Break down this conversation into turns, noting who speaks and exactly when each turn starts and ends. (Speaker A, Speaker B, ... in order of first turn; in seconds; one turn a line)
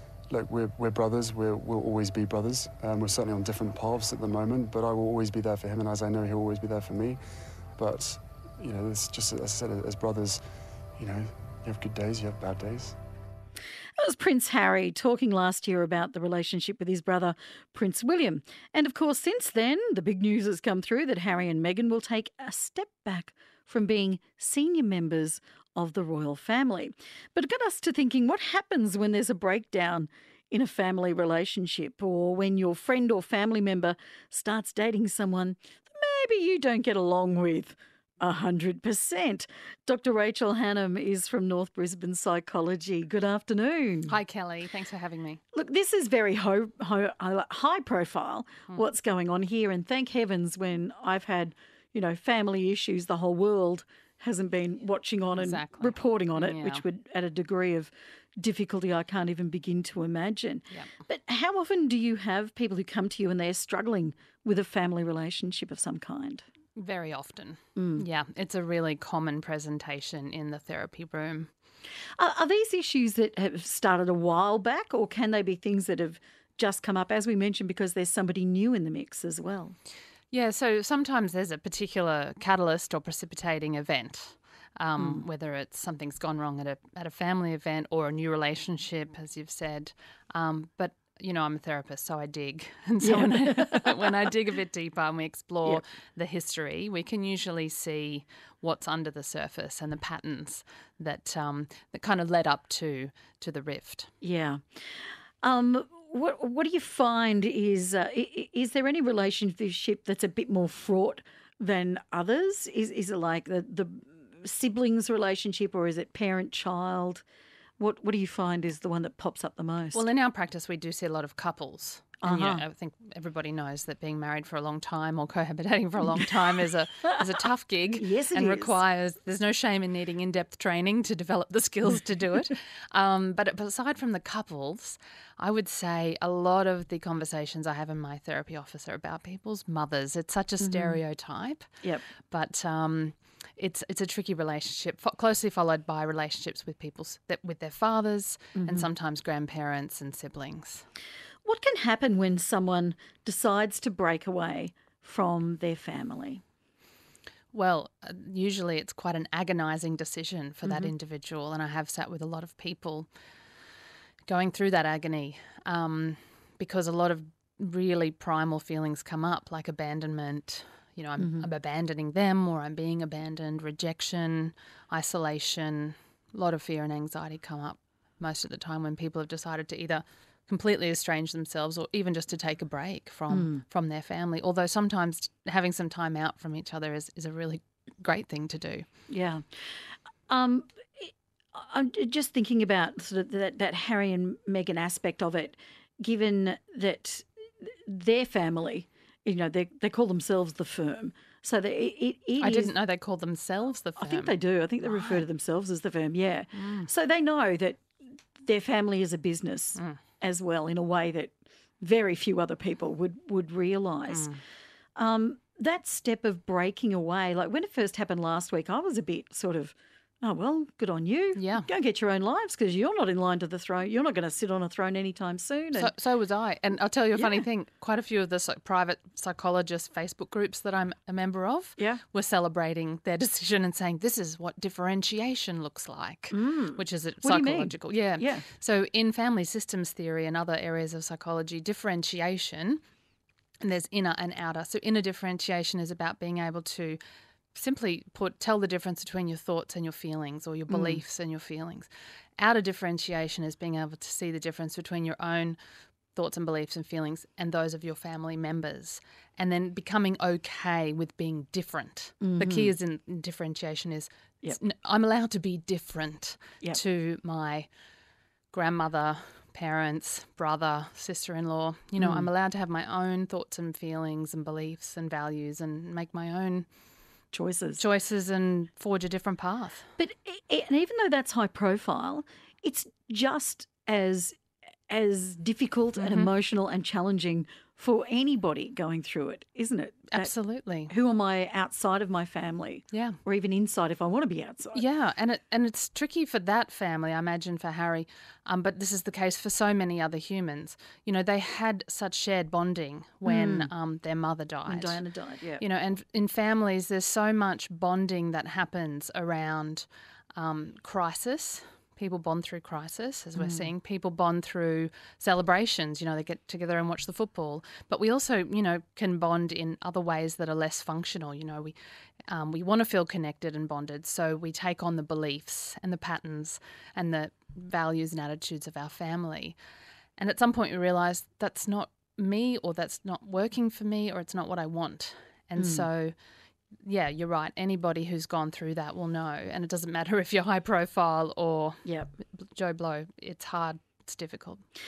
Speaker A: 0.3-7.2
Speaker A: 7.7-10.4
Speaker A: 10.9-13.0
Speaker B: 14.0-44.1
Speaker C: 44.1-45.4
Speaker B: 45.5-66.4
Speaker C: 55.4-56.8
Speaker C: 66.8-71.5
Speaker B: 67.8-68.0
Speaker B: 72.2-79.8
Speaker C: 80.3-104.1
Speaker B: 85.0-85.2
Speaker B: 93.0-94.3
Speaker B: 104.2-117.2
Speaker B: 117.8-120.0
Speaker C: 119.9-141.7
Speaker B: 122.2-122.6
Speaker B: 128.0-128.8
Speaker B: 140.6-141.0
Speaker C: 142.3-150.8
Speaker B: 148.6-148.9
Speaker B: 151.4-156.4
Speaker C: 157.5-163.1
Speaker B: 160.6-160.9
Speaker C: 164.2-188.8
Speaker B: 171.2-171.5
Speaker B: 183.3-183.6
Speaker B: 189.1-202.7
Speaker C: 202.4-205.2
Speaker B: 204.0-207.8
Speaker C: 206.5-206.9
Speaker B: 208.4-214.3
Speaker C: 214.1-214.4
Speaker B: 214.9-225.9
Speaker C: 221.3-221.7
Speaker C: 225.7-242.8
Speaker B: 227.1-227.4
Speaker B: 231.8-232.0
Speaker B: 236.3-238.4
Speaker C: 243.6-247.0
Speaker C: 247.5-255.6
Speaker B: 250.7-251.0
Speaker C: 256.1-267.7
Speaker B: 262.2-262.7
Speaker C: 268.5-276.7
Speaker B: 272.0-272.3
Speaker B: 277.3-277.8
Speaker C: 277.8-279.9
Speaker B: 280.0-284.4
Speaker B: 284.9-290.3
Speaker C: 285.9-286.3
Speaker C: 290.1-290.9
Speaker B: 290.9-294.8
Speaker C: 292.9-293.2
Speaker C: 294.7-305.0
Speaker B: 303.2-303.7
Speaker B: 304.6-305.6
Speaker C: 305.6-321.8
Speaker B: 313.4-313.7
Speaker C: 322.3-329.6
Speaker C: 330.2-336.1
Speaker B: 335.6-335.9
Speaker C: 336.8-344.6
Speaker B: 341.8-342.1